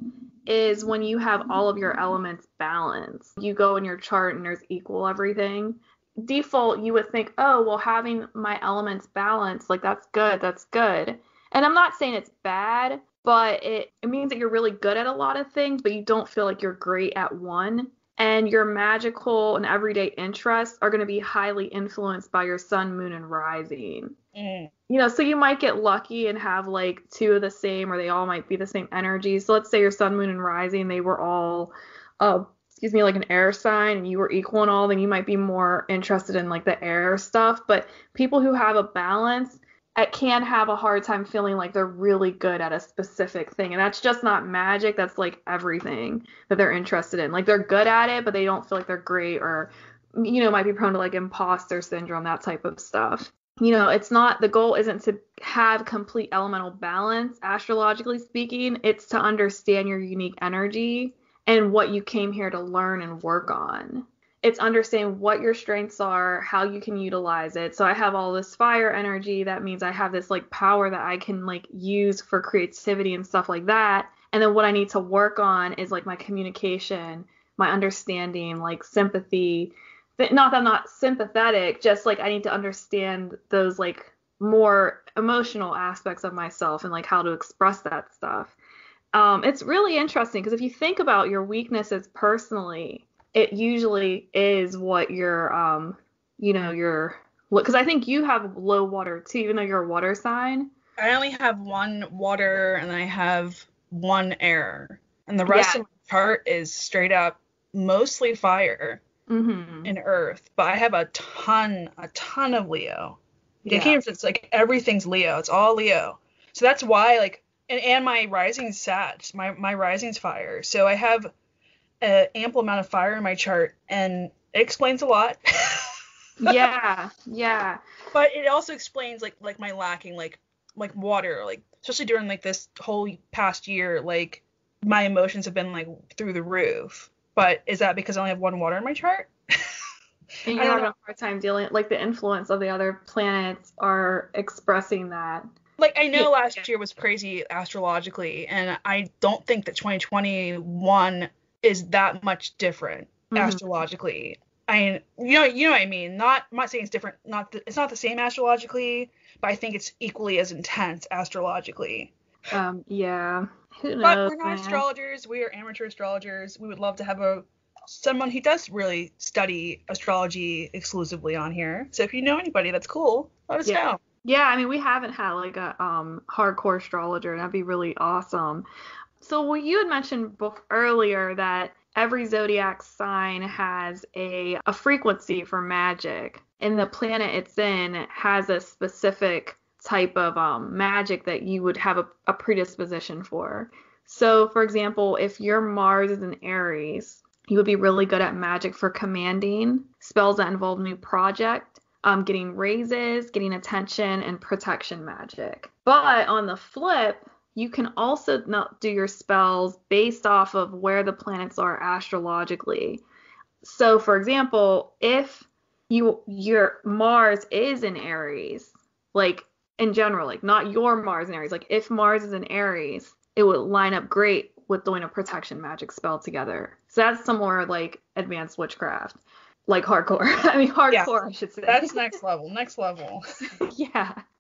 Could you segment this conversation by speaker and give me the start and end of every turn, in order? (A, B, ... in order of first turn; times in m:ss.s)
0:00.5-0:24.1 A
0:24.4-0:24.7 B
0:24.9-1:28.6 A
1:29.1-1:40.7 A
1:41.0-1:49.0 B
1:45.5-1:45.9 A
1:49.3-1:49.9 A
1:49.8-2:01.3 B
1:53.6-1:54.0 A
2:02.0-2:05.8 B
2:06.4-2:07.8 A
2:08.1-2:19.3 B
2:20.5-2:25.5 A
2:20.6-2:20.9 B
2:25.8-2:42.1 B
2:33.3-2:33.6 A
2:42.5-2:44.8 A
2:44.0-2:54.0 B
2:53.6-2:58.7 A
2:59.2-3:33.0 A
3:33.6-3:52.2 A
3:50.9-3:53.3 B
3:53.7-3:54.2 A